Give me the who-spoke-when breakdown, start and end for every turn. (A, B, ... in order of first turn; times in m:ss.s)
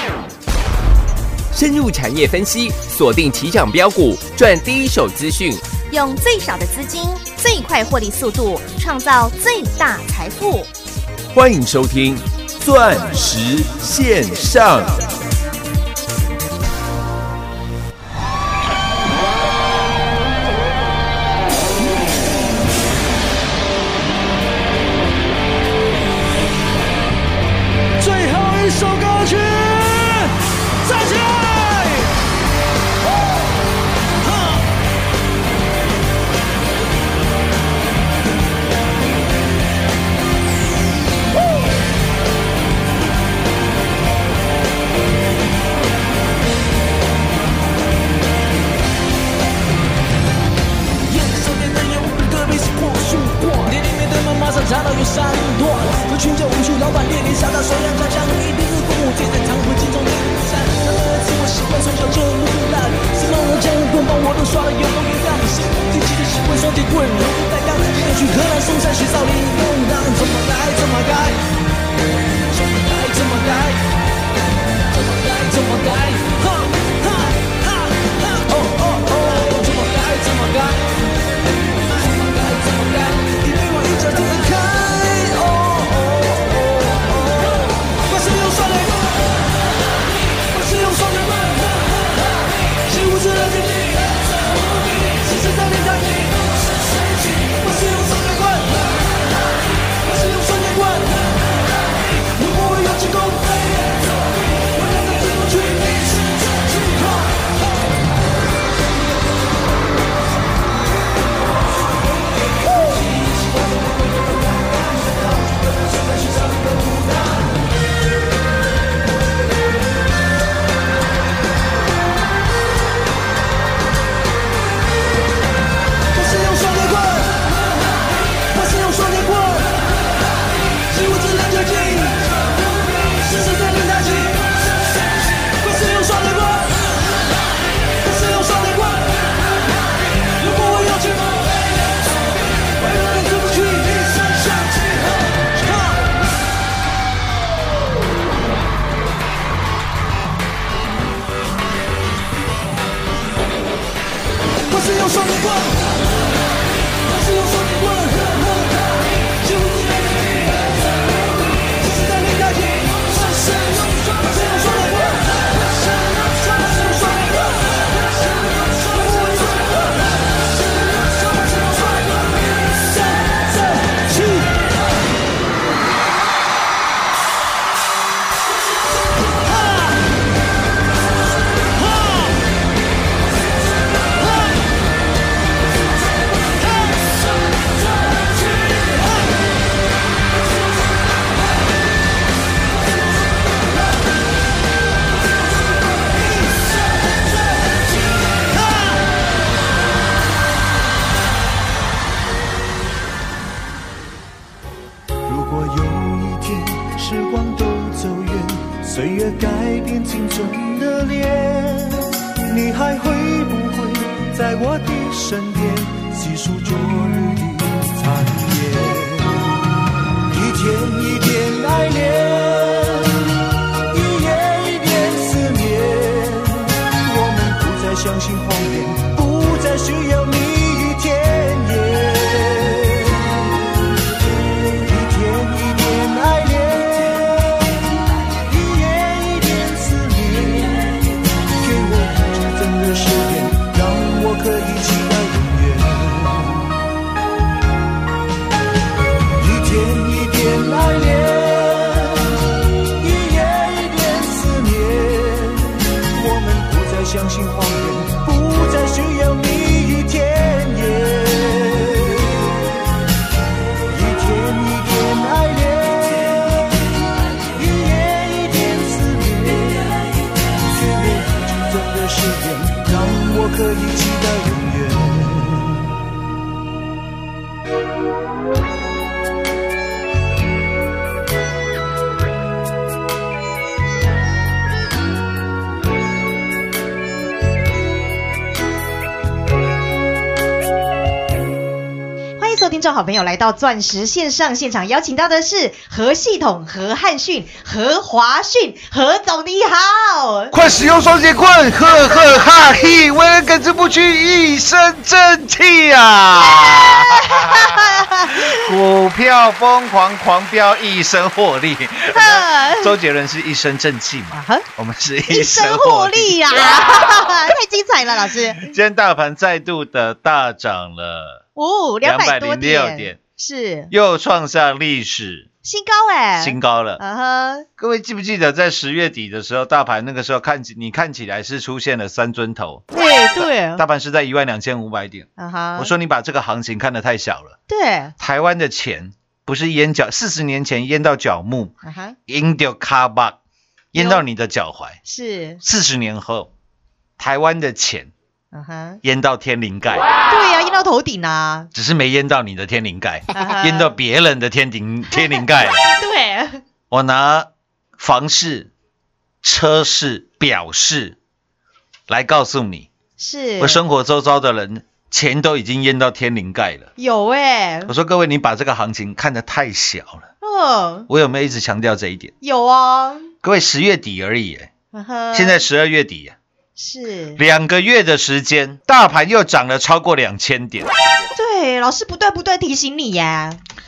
0:01.5-0:05.7 A
0:05.8-0:10.7 B
0:11.3-0:15.0 A
0:28.0-0:32.1 C
0:34.2-0:34.6 C
0:51.1-1:11.4 C
1:12.5-1:13.8 C
1:14.9-1:20.9 C
1:21.8-1:29.5 C
1:30.4-1:39.2 C
1:39.9-1:41.6 C
1:42.2-1:47.5 C
1:54.6-1:57.2 C
2:06.1-2:09.9 C
2:10.9-2:16.9 C
2:17.9-2:19.5 C
2:20.4-2:26.1 C
2:34.7-2:36.0 C
2:37.0-2:54.6 C
2:59.3-3:00.0 C
3:01.6-3:02.4 C
3:04.2-3:04.5 C
3:06.4-3:07.2 C
3:08.0-3:09.3 C
3:16.4-3:19.0 C
3:25.3-3:39.6 D
3:40.3-3:43.3 D
3:43.9-3:53.4 D
3:54.8-4:01.1 D
4:01.6-4:06.7 D
4:09.4-4:12.4 D
4:13.0-4:22.7 D
4:23.9-4:26.9 D
4:27.5-4:35.9 D
4:52.4-5:00.5 E
5:00.5-5:17.4 F
5:06.8-5:08.6 E
5:12.1-5:12.9 E
5:14.3-5:14.7 E
5:15.3-5:18.7 E
5:18.6-5:21.4 F
5:21.6-5:23.9 E
5:22.0-5:23.2 F
5:23.9-5:25.5 F
5:25.6-5:27.6 E
5:26.4-5:27.0 F
5:27.8-5:32.8 F
5:32.9-5:33.8 E
5:33.4-5:37.6 F
5:35.4-5:35.9 E
5:37.7-5:38.1 E
5:38.2-5:41.7 F
5:41.8-5:42.2 E
5:42.3-5:43.4 F
5:43.9-5:45.0 F
5:44.0-5:44.2 E
5:45.1-5:45.6 E
5:45.6-5:46.5 F
5:47.2-5:48.1 F
5:48.5-5:49.0 E
5:49.0-5:50.1 F
5:50.3-5:51.7 E
5:51.7-5:55.9 F
5:53.3-5:54.0 E
5:55.1-5:56.6 E
5:56.9-5:58.7 F
5:59.4-6:01.2 F
6:02.1-6:02.9 F
6:03.2-6:03.8 E
6:03.6-6:06.9 F
6:07.0-6:07.9 E
6:07.9-6:10.3 F
6:10.4-6:11.1 E
6:11.1-6:12.3 F
6:12.4-6:13.3 E
6:13.4-6:14.7 F
6:14.9-6:15.6 E
6:15.3-6:16.4 F
6:16.8-6:17.4 E
6:17.4-6:20.9 F
6:21.4-6:23.6 E